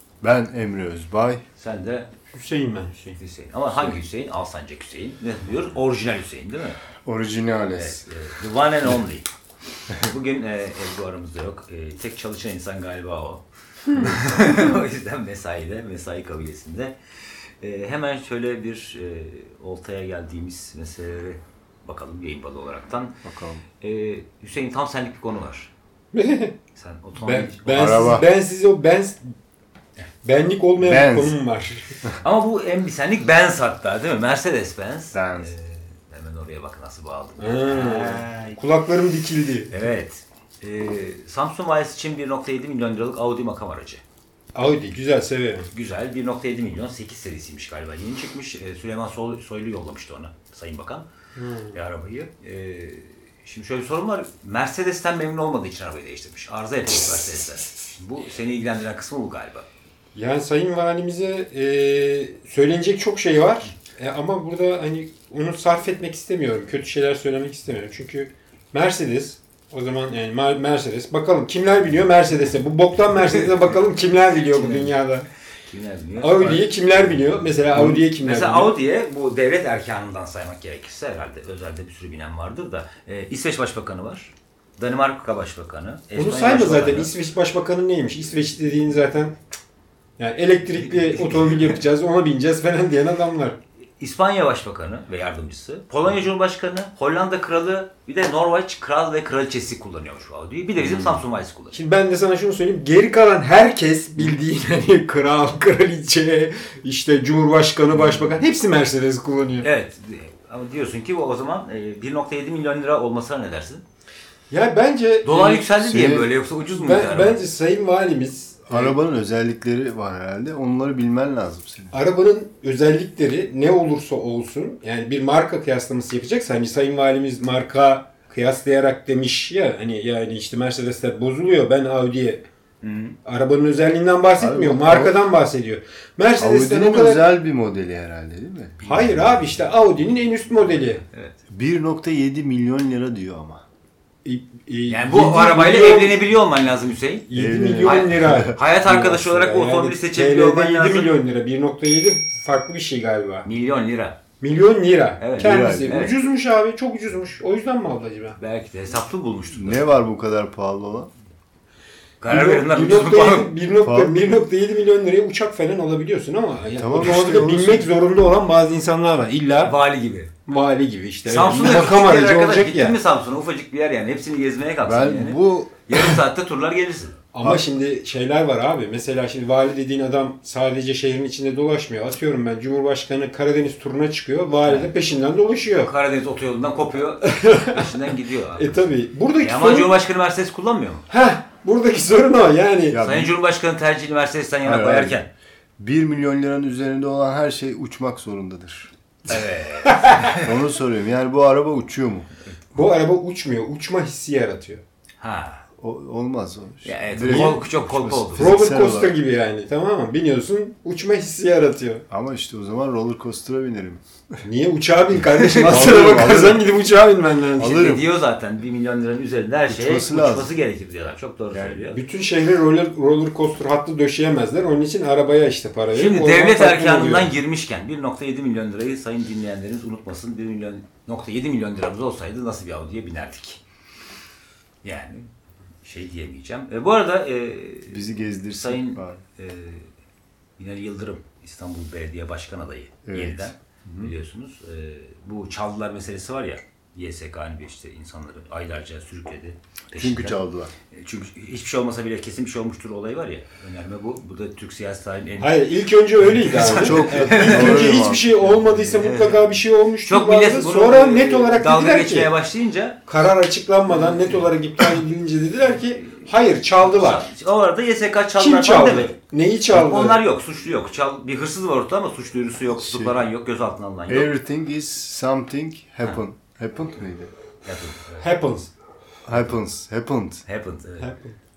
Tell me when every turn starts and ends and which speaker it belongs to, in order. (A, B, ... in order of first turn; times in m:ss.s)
0:00.2-0:01.4 A
0:01.6-0:02.1 B
0:02.3-0:03.2 C
0:03.2-0:06.8 B
0:07.0-0:08.0 A
0:07.7-0:09.3 B
0:09.9-0:13.4 B
0:13.9-0:14.5 A
0:14.0-0:16.9 B
0:17.6-0:23.2 B
0:23.2-0:23.6 A
0:23.8-0:25.7 B
0:26.1-0:26.5 C
0:26.7-0:28.1 B
0:27.2-0:29.2 C
0:27.7-0:28.3 A
0:30.2-0:31.9 C
0:30.8-0:31.3 A
0:32.2-0:38.6 B
0:35.1-0:35.5 A
0:37.4-0:39.7 C
0:39.7-0:44.0 B
0:44.5-0:45.7 C
0:45.7-0:51.1 B
0:51.4-0:51.7 C
0:51.7-0:59.6 B
1:00.1-1:15.3 C
1:14.5-1:14.9 B
1:15.7-1:27.1 B
1:16.2-1:18.7 C
1:26.2-1:29.3 C
1:30.2-1:33.6 C
1:31.1-1:31.7 B
1:34.0-1:41.8 B
1:40.9-1:41.2 C
1:41.7-1:49.7 C
1:47.9-1:48.3 B
1:49.6-1:53.8 B
1:54.5-1:55.7 C
1:55.2-1:57.4 B
1:55.8-1:56.3 A
1:56.7-1:59.0 C
1:58.7-2:01.9 A
2:01.9-2:12.4 C
2:12.8-2:13.1 B
2:13.2-2:17.2 C
2:14.4-2:15.2 A
2:16.4-2:18.8 A
2:18.8-2:21.0 C
2:21.1-2:21.4 B
2:21.5-2:23.6 A
2:24.2-2:26.2 C
2:24.9-2:27.3 B
2:27.3-2:33.5 C
2:27.3-2:28.6 A
2:27.8-2:31.1 B
2:33.4-2:34.2 B
2:34.4-2:38.4 C
2:35.2-2:36.2 B
2:35.4-2:36.0 A
2:38.4-2:39.9 B
2:39.5-2:41.1 A
2:42.2-2:43.5 B
2:42.2-2:49.7 C
2:43.8-2:44.2 A
2:46.8-2:47.9 A
2:49.6-2:50.3 B
2:50.4-2:53.0 C
2:51.2-2:57.2 B
2:54.8-2:55.8 A
2:57.3-3:05.9 C
3:04.6-3:04.9 B
3:05.8-3:08.7 B
3:07.2-3:07.9 C
3:08.5-3:09.9 C
3:09.4-3:11.0 B
3:11.1-3:13.0 C
3:12.9-3:13.3 A
3:13.0-3:15.3 B
3:14.6-3:15.2 A
3:15.8-3:18.9 A
3:19.3-3:20.5 B
3:19.8-3:20.4 C
3:20.3-3:22.3 A
3:22.7-3:24.8 C
3:25.2-3:25.6 B
3:25.8-3:29.1 A
3:26.8-3:28.6 B
3:27.3-3:27.6 C
3:28.3-3:32.0 C
3:32.1-3:34.4 A
3:34.4-3:37.8 C
3:35.4-3:35.8 B
3:35.6-3:36.7 A
3:37.6-3:38.1 A
3:37.6-3:42.0 B
3:39.7-3:40.5 A
3:41.5-3:41.8 A
3:41.9-3:47.3 C
3:45.9-3:53.6 B
3:54.8-3:55.3 B
3:55.8-3:59.9 B
3:57.9-3:59.2 A
4:00.6-4:10.4 B
4:03.0-4:04.1 A
4:10.0-4:10.7 A
4:10.9-4:15.5 B
4:15.4-4:22.3 C
4:16.3-4:19.5 B
4:16.5-4:18.2 A
4:20.0-4:23.0 B
4:23.1-4:27.3 C
4:26.8-4:29.1 B
4:28.4-4:30.2 C
4:29.7-4:34.3 B
4:32.7-4:33.2 A
4:34.1-4:37.3 A
4:37.6-4:38.3 B
4:38.2-4:38.7 C
4:39.2-4:40.4 A
4:40.5-4:41.1 B
4:41.0-4:41.3 C